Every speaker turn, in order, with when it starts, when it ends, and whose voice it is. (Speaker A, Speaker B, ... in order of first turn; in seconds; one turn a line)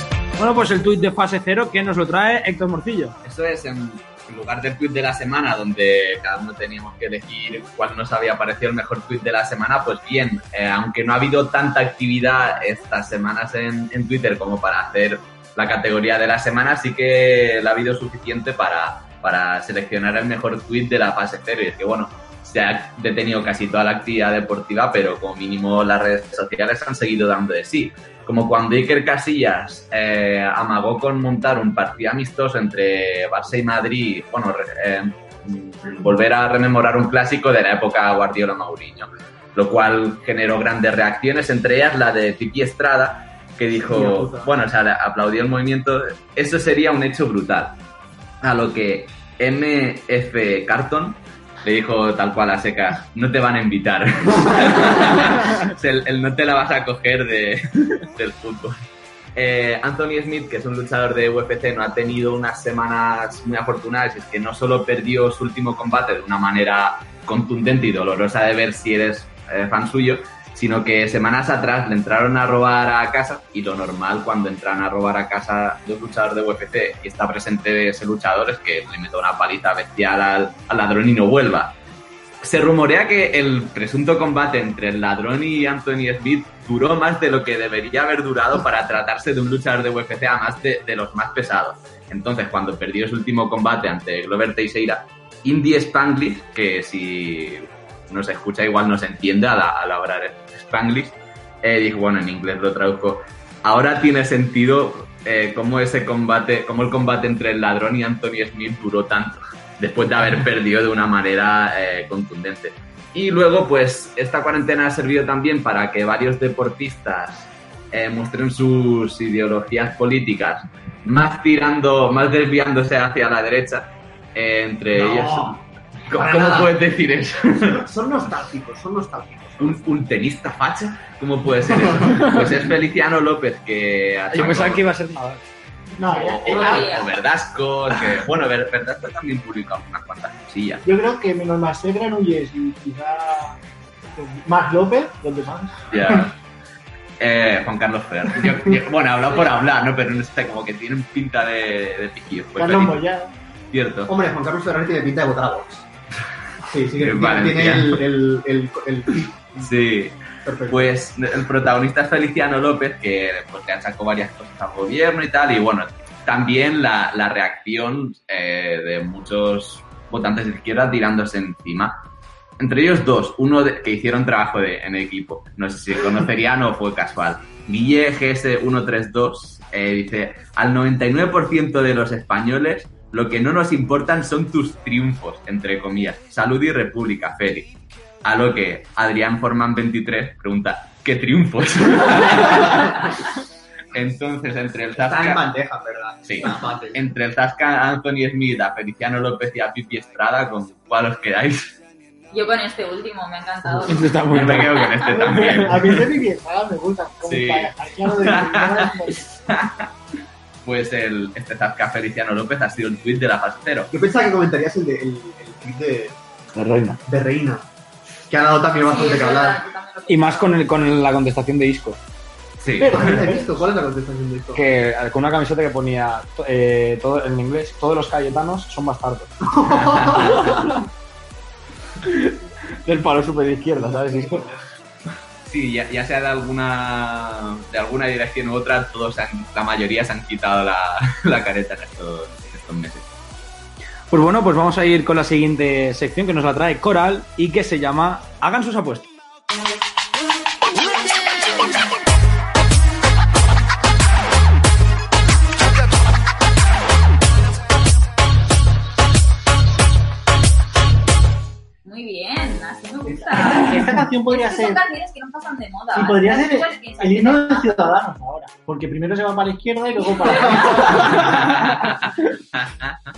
Speaker A: 0.4-3.1
Speaker B: 3.2-47.8
Speaker C: 43.8-44.5
Speaker B: 48.4-58.8
Speaker B: 59.3-81.7
Speaker B: 82.4-127.8
Speaker D: 125.1-125.3
Speaker C: 126.1-126.7
Speaker C: 127.5-129.8
Speaker B: 129.6-134.8
Speaker C: 131.7-132.3
Speaker A: 134.3-135.4
Speaker D: 135.9-137.0
Speaker B: 136.1-140.8
Speaker E: 136.4-137.1
Speaker D: 140.8-143.6
Speaker D: 144.1-146.2
Speaker B: 145.9-146.3
Speaker B: 147.2-153.0
Speaker D: 152.6-153.3
Speaker B: 153.7-154.1
Speaker C: 154.1-155.8
Speaker C: 156.7-159.7
Speaker B: 157.0-158.0
Speaker B: 159.6-160.2
Speaker C: 160.4-160.9
Speaker B: 160.7-171.9
Speaker B: 172.6-187.7
Speaker B: 188.2-193.1
Speaker B: 193.9-195.4
Speaker C: 194.9-197.0
Speaker B: 196.2-201.7
Speaker E: 202.3-204.1
Speaker A: 203.8-204.9
Speaker B: 204.3-206.1
Speaker D: 205.1-209.3
Speaker B: 207.2-209.8
Speaker B: 210.6-213.9
Speaker C: 213.9-216.2
Speaker A: 216.5-217.0
Speaker C: 217.1-217.7
Speaker C: 218.3-219.6
Speaker E: 218.8-220.5
Speaker A: 220.1-222.0
Speaker B: 222.6-223.2
Speaker D: 222.8-223.6
Speaker C: 222.8-224.6
Speaker A: 224.5-229.3
Speaker C: 229.5-230.5
Speaker B: 229.7-230.4
Speaker A: 230.3-230.8
Speaker A: 232.0-234.5
Speaker B: 235.4-243.0
Speaker A: 244.1-249.1
Speaker E: 261.8-267.8
Speaker D: 263.1-264.8
Speaker D: 265.9-271.2
Speaker E: 270.1-271.1
Speaker B: 271.1-271.9
Speaker B: 272.6-272.9